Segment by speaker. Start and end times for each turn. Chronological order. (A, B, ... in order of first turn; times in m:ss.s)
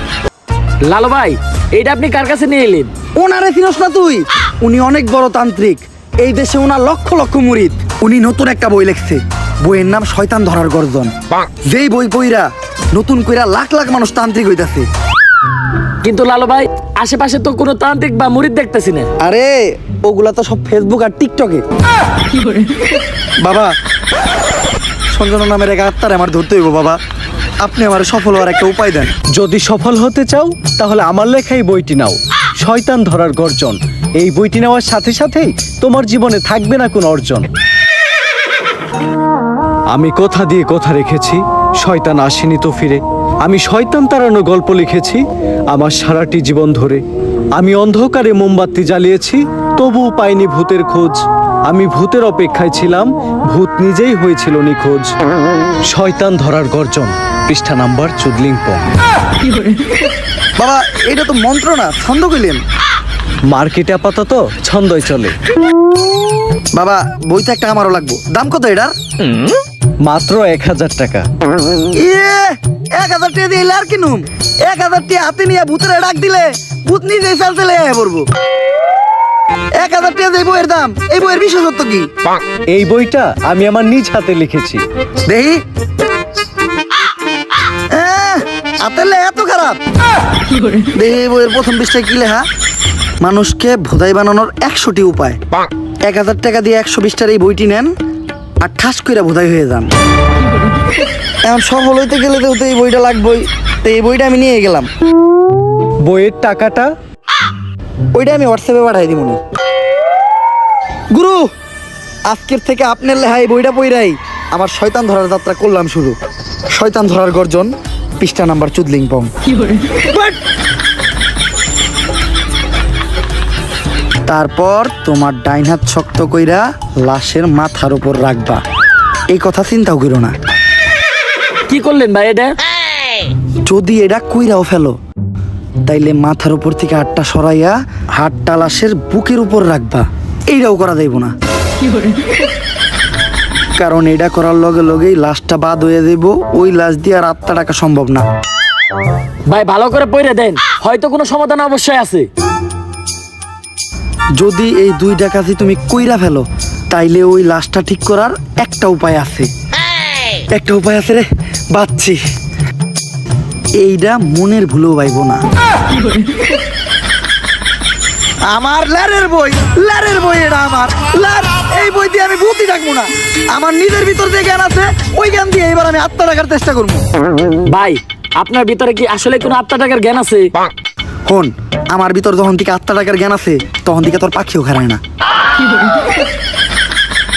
0:00.8-0:02.9 A
0:03.2-0:11.1 B
0:11.7-0:14.9 B
0:16.0-0:19.1 A
0:19.2-0:21.6 B
0:23.4-0:23.7 B
0:25.1-0:27.0 B
0:27.6-0:29.1 B
0:29.3-0:37.5 C
0:39.9-0:45.2 C
0:45.7-0:47.0 C
0:47.6-0:55.1 C
0:55.9-0:58.9 C
1:00.6-1:02.6 B
1:03.5-1:05.4 C
1:06.8-1:08.9 B
1:10.0-1:11.3 C
1:12.0-1:18.3 B
1:19.8-1:22.1 B
1:22.7-1:24.8 C
1:25.3-1:25.6 B
1:27.9-1:29.8 B
1:31.0-1:32.4 B
1:33.2-1:35.4 B
1:36.0-1:37.9 B
1:38.6-1:39.9 B
1:41.4-1:44.9 B
1:46.1-1:46.9 C
1:48.2-1:49.4 B
1:51.2-1:51.4 B
1:52.3-1:56.2 B
1:56.7-1:59.3 B
2:04.3-2:08.6 B
2:09.3-2:10.4 B
2:11.7-2:12.6 A
2:13.7-2:15.0 B
2:15.9-2:21.3 B
2:23.8-2:28.2 B
2:29.5-2:32.3 A
2:34.4-2:39.5 B
2:40.5-2:42.2 B
2:43.8-2:45.4 B
2:48.5-2:57.0 B
2:57.7-3:00.5 A
3:01.3-3:05.0 B